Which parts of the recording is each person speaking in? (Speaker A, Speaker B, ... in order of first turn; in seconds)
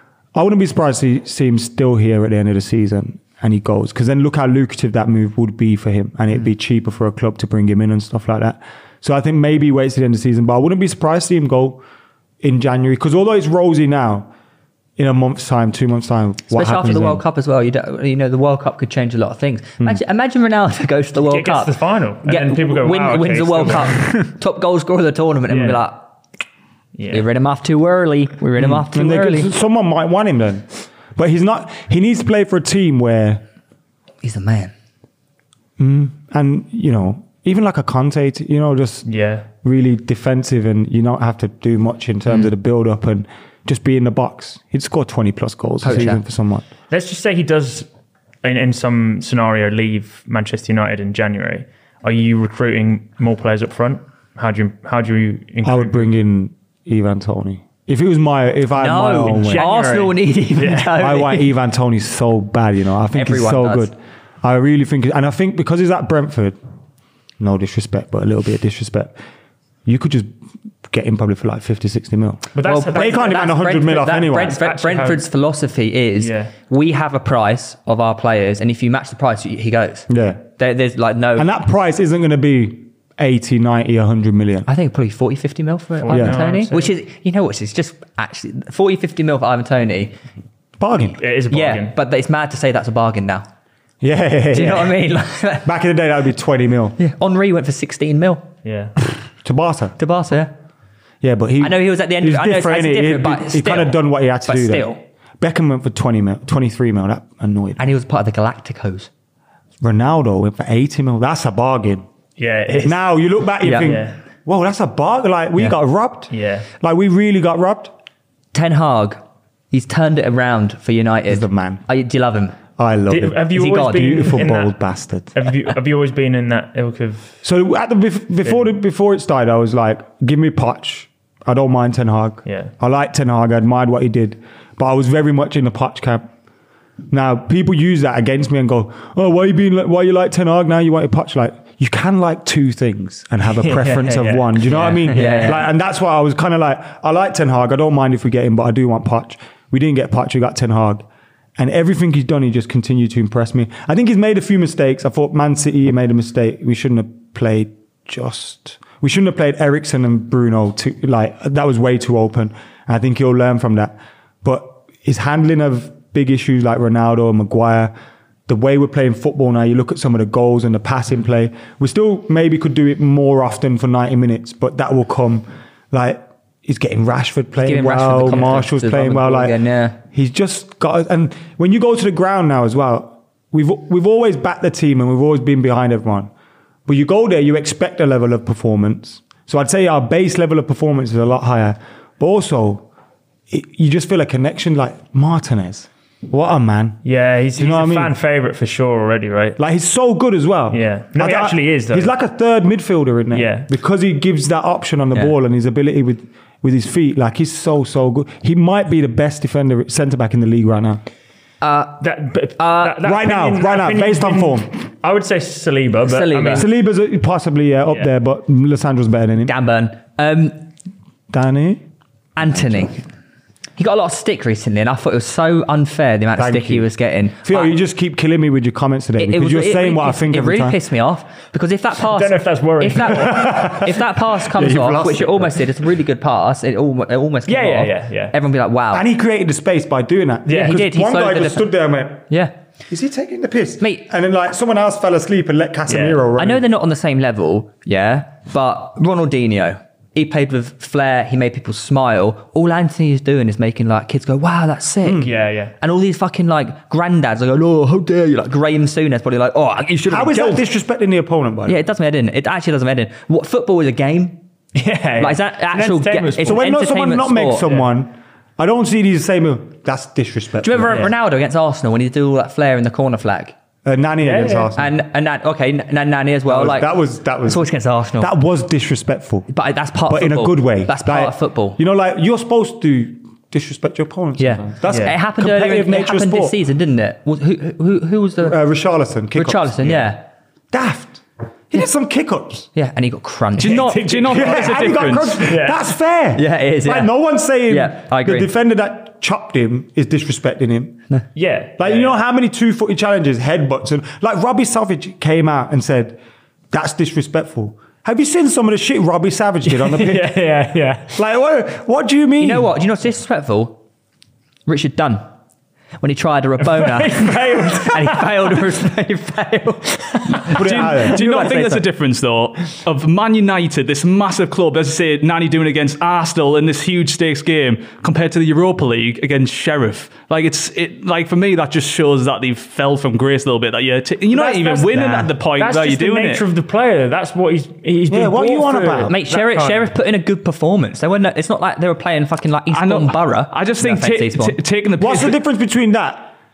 Speaker A: 0.3-11.8, 12.4-14.3, 15.0-17.2, 28.6-33.4, 35.8-39.1, 39.6-46.7, 55.6-59.7, 60.9-66.6, 67.4-69.1, 69.8-70.3, 70.9-74.6, 80.1-80.4, 81.3-84.7, 86.1-86.4, 90.8-91.2, 94.0-95.0, 95.6-97.0, 99.4-100.0, 101.2-107.8, 109.8-112.0, 112.8-117.9, 121.3-121.8, 122.8-125.3, 127.4-136.3, 137.1-151.0, 151.6-167.9, 168.5-186.3, 186.8-192.9, 193.5-197.0, 197.6-198.1, 199.6-211.0, 213.0-214.7, 216.5-219.5, 221.3-221.8, 226.3-230.8, 233.1-235.7, 238.9-242.3, 242.9-246.7, 255.0-255.3, 260.1-261.8, 266.4-271.1, 273.8-274.9, 276.4-279.5, 280.1-286.6, 288.4-290.0, 290.7-292.7, 294.3-301.0, 301.8-306.2, 306.7-310.4, 311.1-312.7, 320.5-321.2, 338.1-339.1, 345.0-346.3
Speaker B: 16.5-21.7, 22.2-26.1, 27.1-29.5, 34.2-34.7, 45.8-46.2, 58.8-61.4, 63.1-63.9, 72.6-81.5, 84.7-90.1, 91.5-93.5, 94.5-95.7, 97.0-98.5, 100.0-100.5, 101.6-105.0, 107.8-109.1, 113.6-114.0, 118.5-122.6, 123.5-124.3, 144.7-145.7, 177.6-180.0, 211.6-212.0, 212.6-213.0, 216.0-216.7, 219.4-220.6, 222.3-223.0, 223.8-227.7, 229.2-239.1, 240.5-241.7, 246.4-260.6, 261.6-264.4, 265.2-267.7, 270.6-273.5, 274.7-278.3, 279.5-281.8, 284.4-288.6, 289.3-290.3, 292.7-294.0, 296.3-297.1, 297.6-298.5, 312.4-313.8, 314.7-315.3, 316.0-321.8, 339.1-344.6
Speaker C: 21.2-24.2, 25.5-25.8, 26.9-27.2, 39.0-39.5, 46.9-47.9, 48.4-56.1, 59.4-61.0, 72.5-73.6, 74.5-75.2, 76.2-76.5, 86.0-86.9, 91.2-91.9, 98.6-98.9, 112.4-114.1, 116.3-116.7, 123.1-124.8, 125.3-127.4, 132.4-132.7, 143.6-145.6, 197.0-199.6, 200.7-202.1, 203.3-203.7, 212.0-216.7, 232.1-233.7, 237.5-238.3, 240.5-240.8, 245.9-246.2, 255.2-255.7, 264.7-266.6, 274.2-274.7, 284.9-285.1, 293.6-295.8, 301.3-302.2, 309.6-311.2, 316.6-318.6, 320.1-320.6, 334.3-339.9
Speaker D: 293.6-295.4, 320.4-336.4, 342.7-345.4